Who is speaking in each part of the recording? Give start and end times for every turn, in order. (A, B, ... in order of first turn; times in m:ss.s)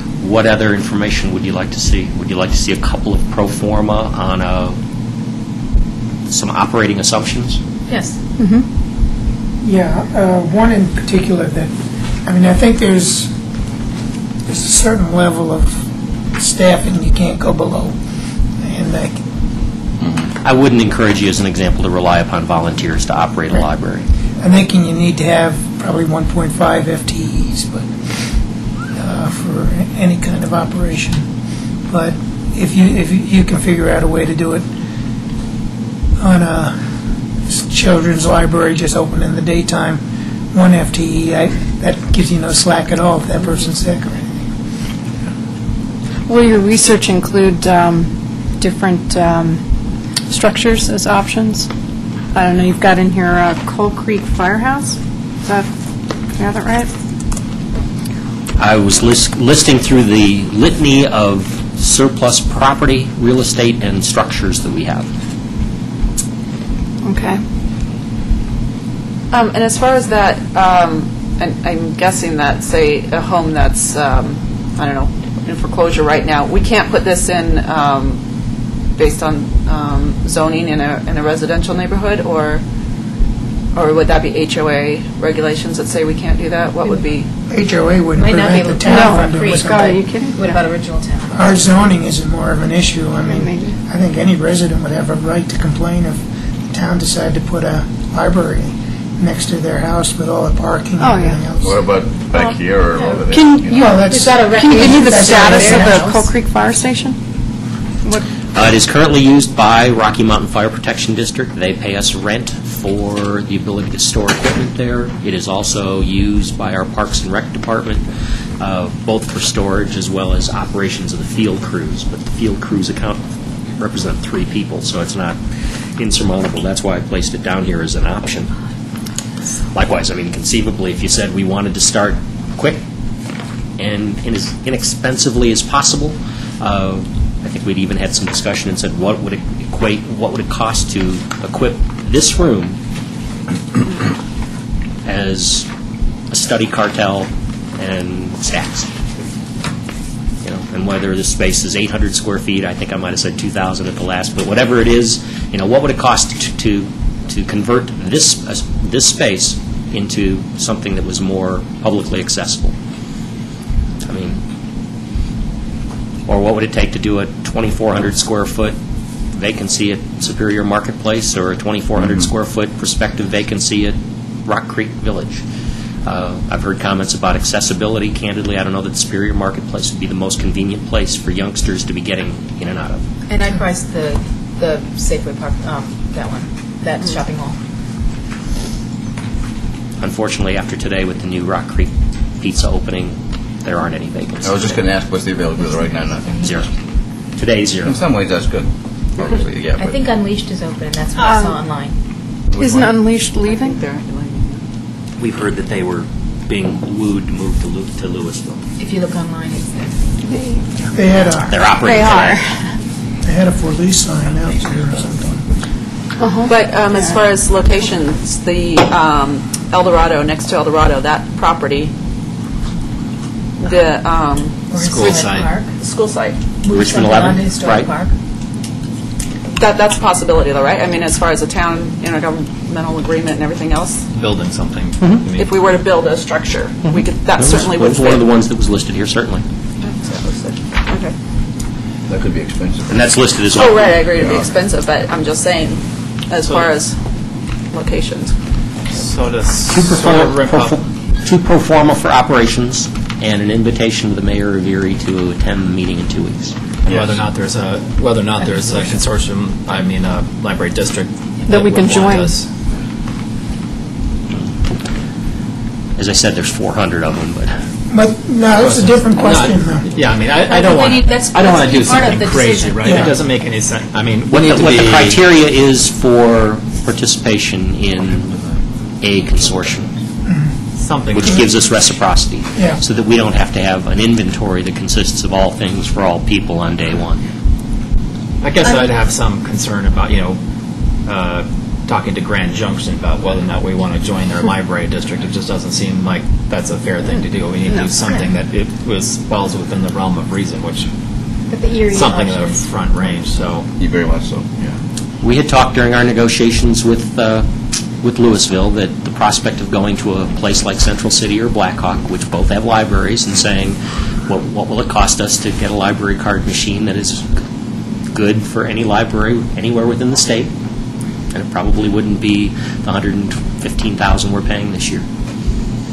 0:00.2-0:04.8 A
0:06.3-0:07.6 A
0:07.9-0:08.2 B
0:08.4-0:08.7 C
0:09.6-0:11.7 D
0:12.2-0:13.3 D
0:14.5-0:18.0 D
0:18.6-0:19.2 D
0:20.0-0:20.3 E
0:20.4-0:24.1 A
0:24.4-0:28.1 D
0:28.9-0:31.3 D
0:31.9-0:34.7 D
0:36.2-0:36.8 D
0:37.5-0:44.3 D
0:46.3-0:49.6 C
0:50.3-0:51.7 C
0:52.4-0:55.7 C
0:56.4-0:56.9 C
0:58.6-1:05.1 A
1:07.0-1:07.4 C
1:09.3-1:18.2 F
1:19.0-1:22.6 F
1:23.7-1:27.3 F
1:27.5-1:30.0 D
1:28.2-1:31.6 B
1:28.9-1:30.6 C
1:31.3-1:41.8 D
1:33.3-1:33.8 C
1:41.0-1:41.4 C
1:41.6-1:43.9 E
1:43.3-1:47.2 C
1:43.7-1:46.1 D
1:43.8-1:46.2 B
1:48.5-1:58.0 A
1:58.6-2:03.2 A
2:03.8-2:05.4 A
2:06.0-2:08.5 A
2:09.7-2:12.8 A
2:13.8-2:22.8 A
2:25.0-2:25.7 A
2:26.3-2:28.9 A
2:30.4-2:42.7 A
2:44.0-2:44.4 A
2:46.3-2:48.8 A
2:49.3-2:55.4 A
2:56.0-3:03.0 A
3:03.3-3:07.6 B
3:10.0-3:14.8 A
3:14.4-3:16.7 E
3:16.4-3:16.7 A
3:17.4-3:18.0 A
3:17.8-3:20.0 E
3:19.8-3:22.0 B
3:21.2-3:21.6 C
3:22.6-3:22.9 E
3:22.6-3:23.8 C
3:23.4-3:24.6 F
3:25.2-3:28.6 A
3:28.8-3:29.9 B
3:30.3-3:30.6 C
3:30.9-3:31.6 D
3:31.5-3:32.4 A
3:31.7-3:32.6 C
3:33.2-3:35.4 D
3:36.2-3:37.2 C
3:36.5-3:41.9 F
3:43.6-3:45.1 F
3:44.7-3:45.7 B
3:44.7-3:45.6 G
3:45.8-3:46.4 F
3:46.6-3:48.1 B
3:46.7-3:47.9 A
3:49.6-3:54.0 F
3:54.1-3:55.6 G
3:55.4-3:58.2 F
3:57.4-3:59.4 A
3:59.8-4:01.1 F
4:02.1-4:03.1 E
4:02.9-4:04.4 A
4:03.6-4:07.0 F
4:04.2-4:04.5 E
4:06.4-4:06.7 G
4:07.7-4:08.4 F
4:08.9-4:10.8 G
4:09.9-4:10.7 A
4:11.2-4:16.6 A
4:16.8-4:22.5 G
4:16.9-4:17.2 E
4:21.5-4:22.4 C
4:26.0-4:27.6 A
4:27.9-4:29.8 D
4:28.5-4:35.2 G
4:30.5-4:33.1 B
4:32.8-4:33.2 D
4:34.3-4:38.4 A
4:39.0-4:39.9 A
4:40.3-4:40.5 D
4:40.8-4:41.5 G
4:41.1-4:47.2 A
4:48.4-4:50.4 G
4:51.0-5:00.9 G
5:01.5-5:02.6 B
5:01.9-5:03.7 G
5:03.8-5:04.8 E
5:05.2-5:07.5 A
5:08.0-5:17.3 A
5:18.1-5:20.5 A
5:21.3-5:25.0 A